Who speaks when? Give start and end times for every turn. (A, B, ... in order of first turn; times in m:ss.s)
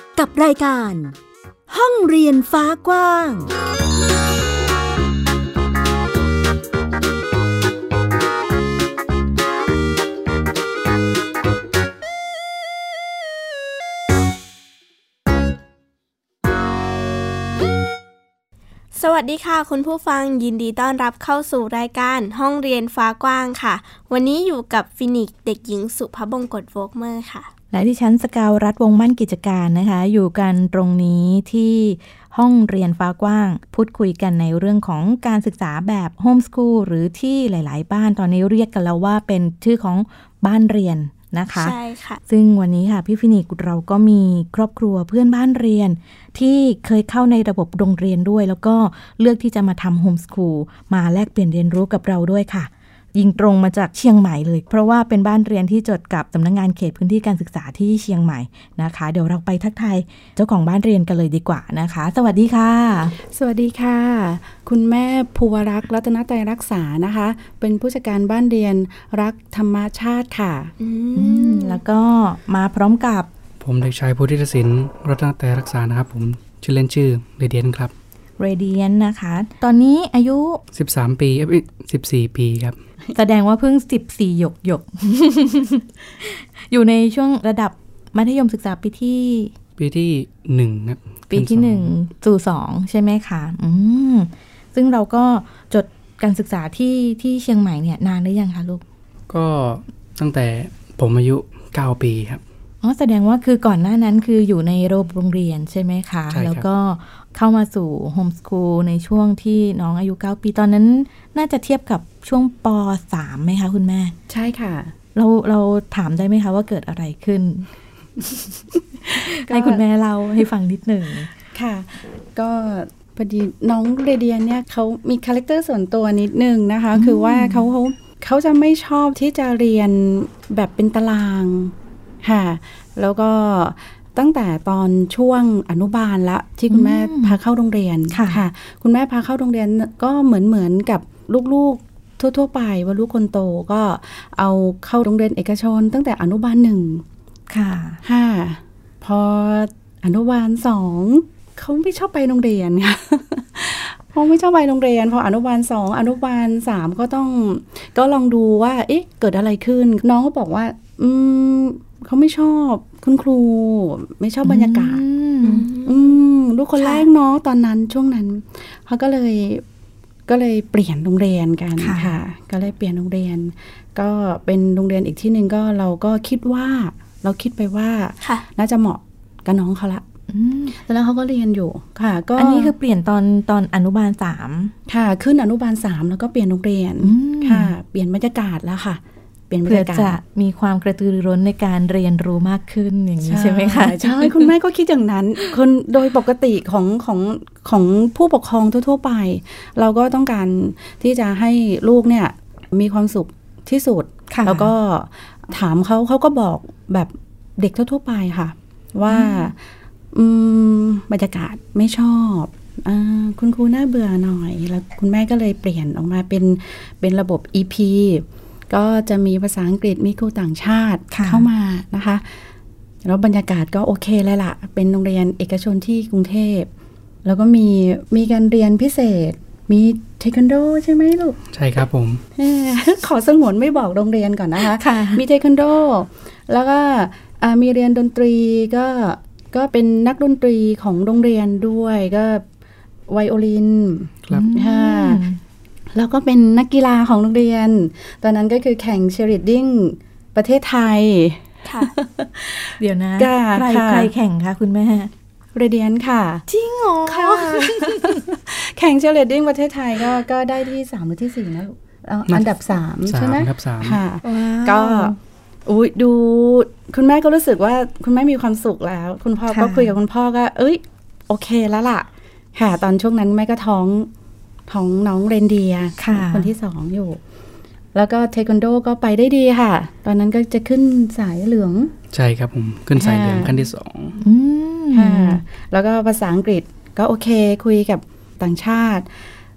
0:00.2-0:01.1 A
0:01.7-0:03.5 A
0:18.9-0:27.5 B
0:27.7-0:41.7 C
0:41.5-0:42.2 B
0:42.3-1:03.2 C
1:03.2-1:10.7 D
1:10.8-1:11.8 B
1:11.2-1:13.3 C
1:13.6-1:17.9 E
1:18.4-1:20.6 C
1:20.7-1:22.8 E
1:23.1-1:29.5 C
1:29.8-1:31.9 E
1:31.3-1:38.8 C
1:39.3-1:42.4 E
1:42.8-1:54.1 C
1:46.3-1:46.6 E
1:54.3-1:54.9 D
1:55.1-1:57.7 C
1:59.1-1:59.8 D
1:59.1-2:01.3 C
2:01.5-2:27.0 D
2:06.9-2:07.7 C
2:16.7-2:17.4 C
2:18.1-2:18.4 C
2:27.5-2:28.0 C
2:28.0-2:45.0 D
2:44.4-2:45.7 C
2:45.4-2:46.1 B
2:45.8-2:49.6 D
2:50.3-3:00.0 D
2:51.8-2:52.2 C
3:00.3-3:00.8 C
3:00.7-3:02.7 D
3:02.4-3:04.7 C
3:04.9-3:10.2 D
3:07.0-3:07.7 C
3:09.6-3:14.5 C
3:13.2-3:29.6 D
3:24.3-3:24.7 C
3:29.1-3:29.4 C
3:30.1-3:42.3 D
3:41.1-3:41.5 C
3:43.0-3:46.7 D
3:47.2-3:51.4 D
3:51.5-3:52.2 E
3:52.4-4:02.4 D
3:54.6-3:55.2 C
4:03.1-4:05.2 D
4:04.3-4:05.4 C
4:05.9-4:14.1 D
4:11.6-4:11.9 B
4:12.8-4:15.1 C
4:15.5-4:16.4 D
4:16.5-4:18.2 C
4:17.0-4:25.1 D
4:23.1-4:24.0 E
4:24.2-4:25.2 C
4:25.6-4:34.1 D
4:29.5-4:29.9 C
4:34.7-4:37.2 D
4:36.0-4:36.5 C
4:37.9-4:41.9 D
4:42.1-4:44.2 E
4:43.0-4:43.6 D
4:44.2-4:45.4 C
4:44.9-4:49.1 D